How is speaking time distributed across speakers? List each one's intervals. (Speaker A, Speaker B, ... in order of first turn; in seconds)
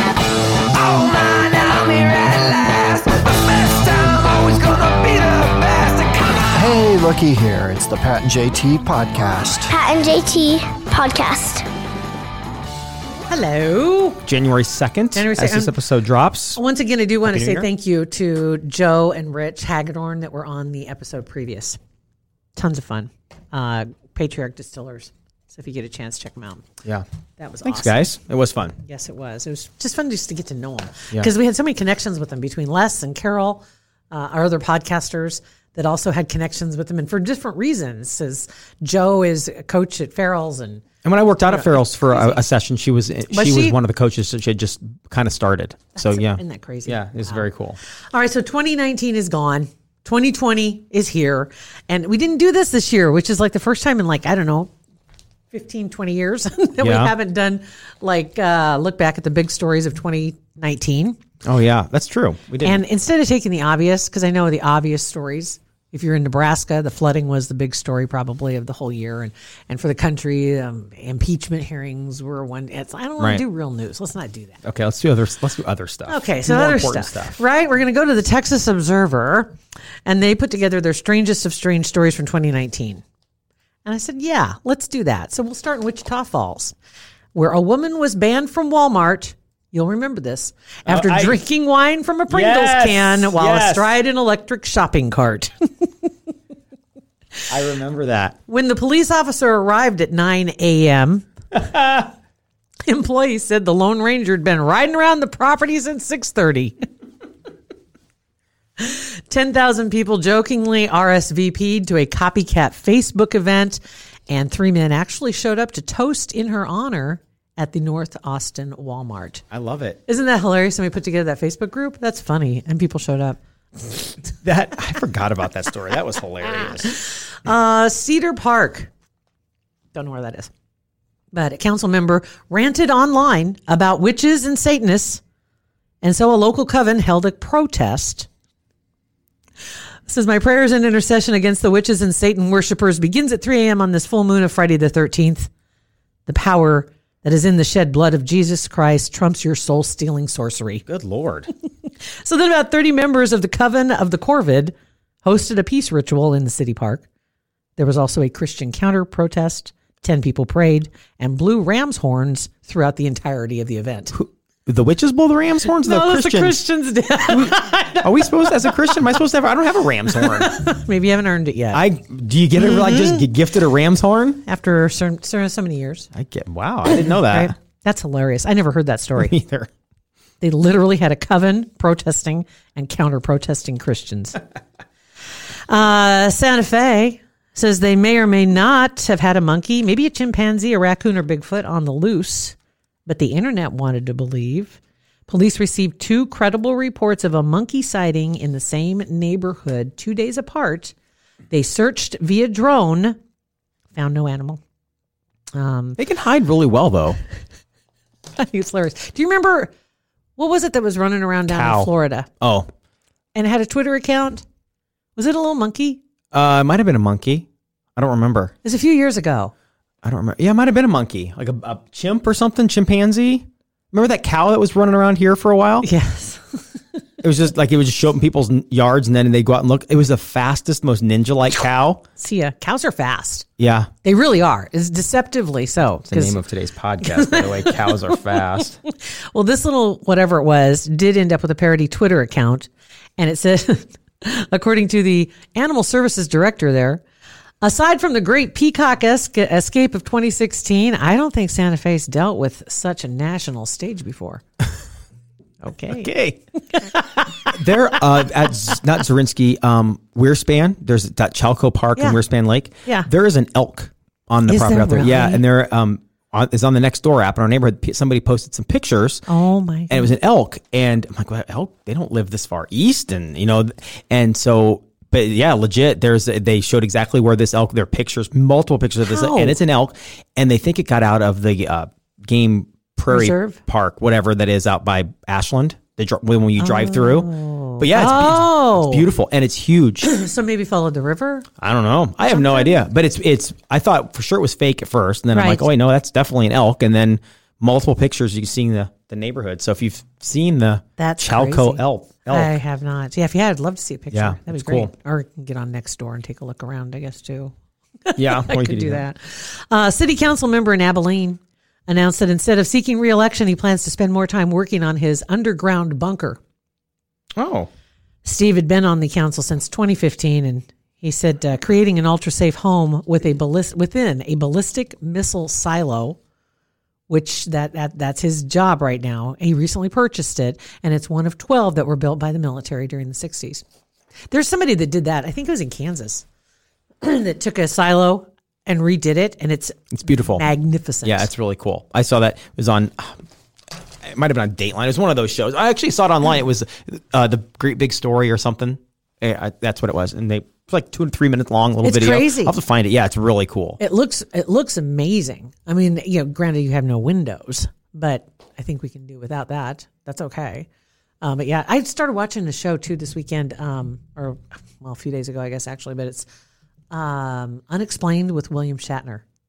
Speaker A: 0.7-6.5
Speaker B: 6.5-9.7
Speaker C: 9.7-11.6
Speaker D: 13.3-14.2, 15.1-15.8, 16.5-21.8, 22.6-26.6, 27.4-28.1, 28.8-40.8, 41.5-42.4, 43.3-43.8, 46.0-47.5, 48.1-54.7, 55.5-61.2, 62.6-74.6, 76.1-79.5, 80.0-83.0, 83.8-86.8, 87.3-95.5, 98.5-101.3, 102.8-106.7, 108.8-119.4, 120.0-124.2, 126.7-128.9, 129.9-130.5, 131.3-135.2, 136.0-138.3, 140.1-145.5, 146.2-150.8, 152.2-157.0, 157.8-164.1, 165.7-169.0, 170.1-171.8, 172.6-173.2, 174.4-176.1, 176.9-179.3, 180.4-184.4, 185.7-200.9, 201.5-203.2, 203.9-204.6, 205.5-206.0, 208.3-209.7, 210.4-212.3, 213.3-214.4, 215.2-216.0, 218.6-219.5, 225.8-226.6, 232.2-233.4, 234.0-236.4, 237.0-238.1, 238.9-247.0, 247.6-254.4, 255.6-256.1, 256.7-257.5, 264.5-265.4, 269.3-270.1, 279.0-279.6, 283.1-283.6, 286.6-289.1, 290.0-291.5, 292.3-292.8, 295.3-295.7, 301.0-307.5, 308.0-316.4, 318.2-326.2, 327.1-333.6, 334.3-336.2, 337.0-341.3, 351.8-352.6, 353.8-360.7, 361.2-366.2, 366.9-369.2
Speaker E: 14.2-16.6, 17.2-17.7, 27.6-28.8, 41.0-47.8, 56.8-57.1, 61.4-62.8, 73.2-73.4, 74.6-77.4, 90.9-91.4, 92.3-93.9, 97.5-98.3, 101.5-102.1, 119.5-120.0, 124.4-127.0, 150.9-151.5, 164.1-166.6, 167.3-170.5, 171.7-174.4, 176.1-177.5, 179.2-179.7, 206.0-207.2, 211.5-212.7, 216.3-218.5, 220.0-225.9, 227.2-232.0, 233.6-233.9, 236.1-238.8, 255.9-256.4, 257.4-269.2, 269.9-290.1, 291.6-302.6, 304.1-304.9, 308.2-309.0, 317.4-317.7, 339.9-340.4, 341.0-343.2, 344.0-353.8